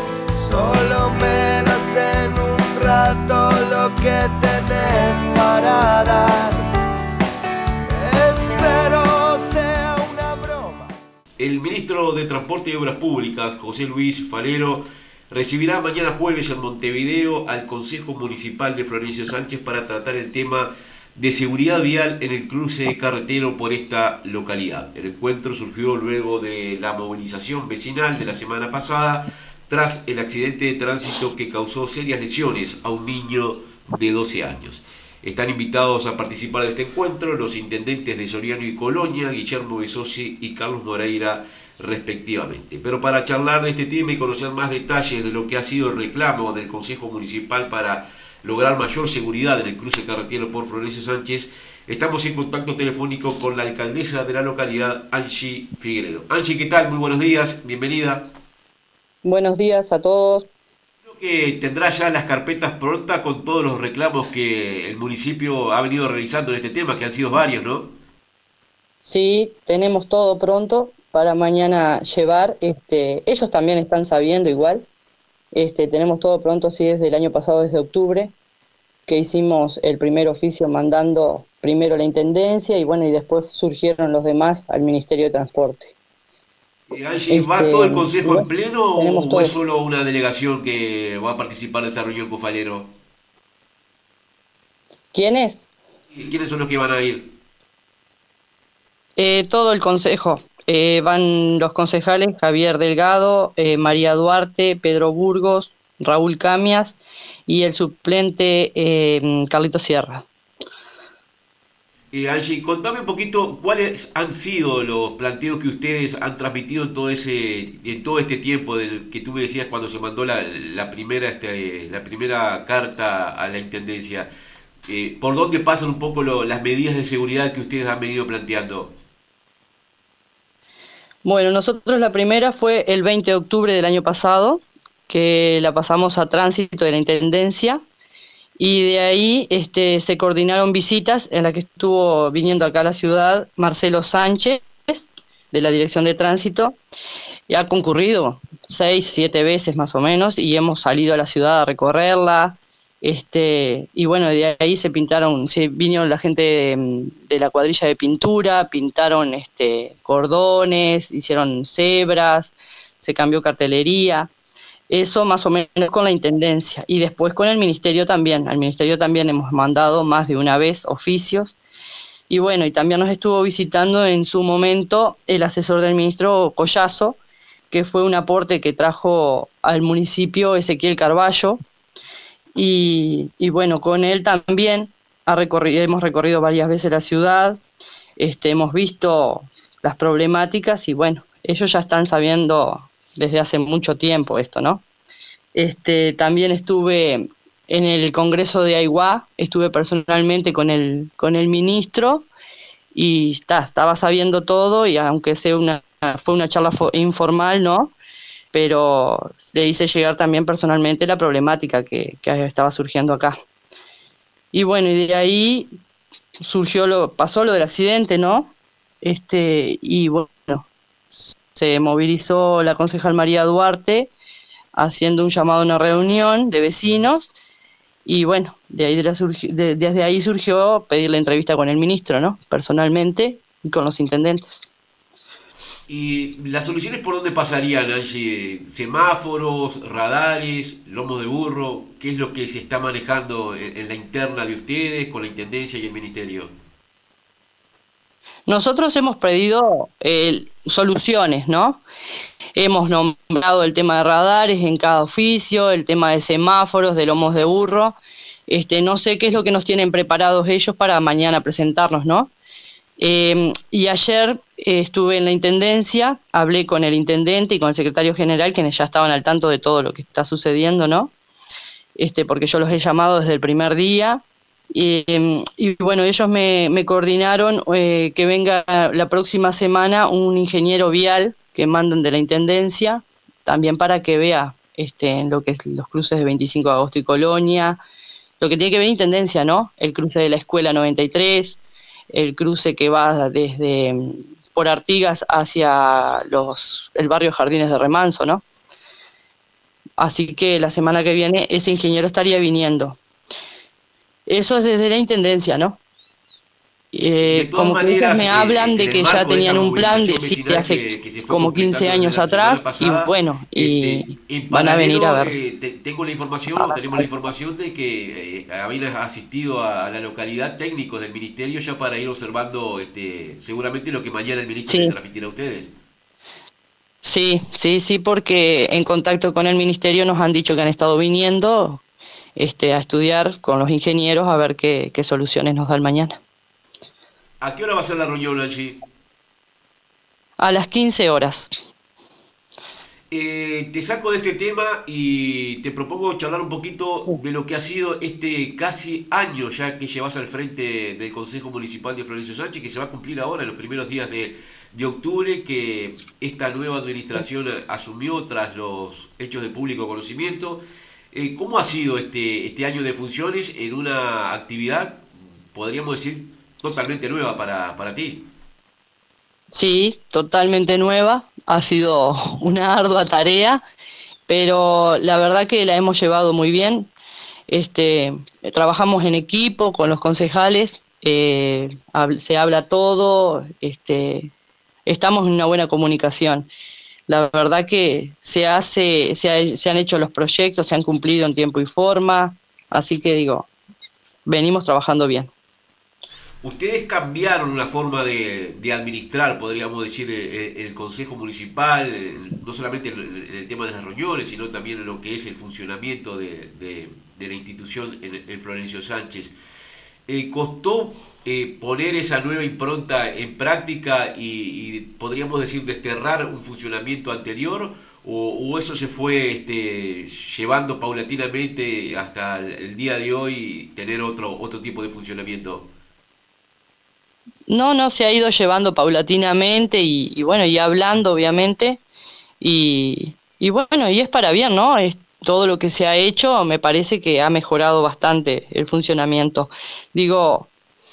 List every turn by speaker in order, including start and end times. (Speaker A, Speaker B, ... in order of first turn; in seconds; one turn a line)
Speaker A: 0.3-6.6
Speaker A: 7.8-10.9
Speaker B: 11.4-58.2
Speaker C: 59.2-60.5
Speaker B: 61.0-67.9
Speaker C: 69.0-74.9
Speaker C: 75.5-78.3
Speaker C: 79.0-85.9
Speaker B: 86.9-92.9
Speaker C: 87.3-89.6
Speaker C: 95.1-95.7
Speaker B: 96.1-97.3
Speaker C: 99.2-110.2
Speaker B: 112.1-124.3
Speaker B: 124.9-128.9
Speaker C: 131.2-137.8
Speaker C: 138.6-146.8
Speaker C: 147.5-164.3
Speaker C: 164.9-171.6
Speaker C: 172.3-177.2
Speaker C: 177.7-181.6
Speaker C: 182.5-187.6
Speaker C: 188.2-194.8
Speaker C: 195.5-202.3
Speaker C: 202.9-207.9
Speaker C: 208.5-213.3
Speaker C: 214.5-215.7
Speaker C: 216.4-218.5
Speaker C: 219.0-220.7
Speaker C: 221.3-224.1
Speaker C: 224.7-227.3
Speaker C: 228.0-234.6
Speaker B: 235.9-246.5
Speaker C: 248.5-251.8
Speaker C: 252.5-258.0
Speaker C: 258.5-262.3
Speaker C: 263.0-271.1
Speaker C: 272.0-287.8
Speaker C: 288.4-291.6
Speaker C: 292.1-298.4
Speaker C: 300.0-303.0
Speaker C: 304.3-305.8
Speaker C: 306.9-315.4
Speaker B: 307.2-325.7
Speaker C: 316.6-317.1
Speaker C: 324.7-324.9
Speaker C: 327.0-331.8
Speaker C: 332.4-336.1
Speaker B: 337.4-338.8
Speaker C: 340.4-341.5
Speaker B: 343.1-368.2
Speaker C: 369.5-373.6
Speaker C: 374.3-376.9
Speaker C: 377.5-384.3
Speaker C: 384.9-386.5
Speaker C: 387.1-393.5
Speaker C: 394.2-395.3
Speaker B: 396.4-409.3
Speaker B: 410.1-425.7
Speaker C: 427.5-431.8
Speaker C: 432.4-440.5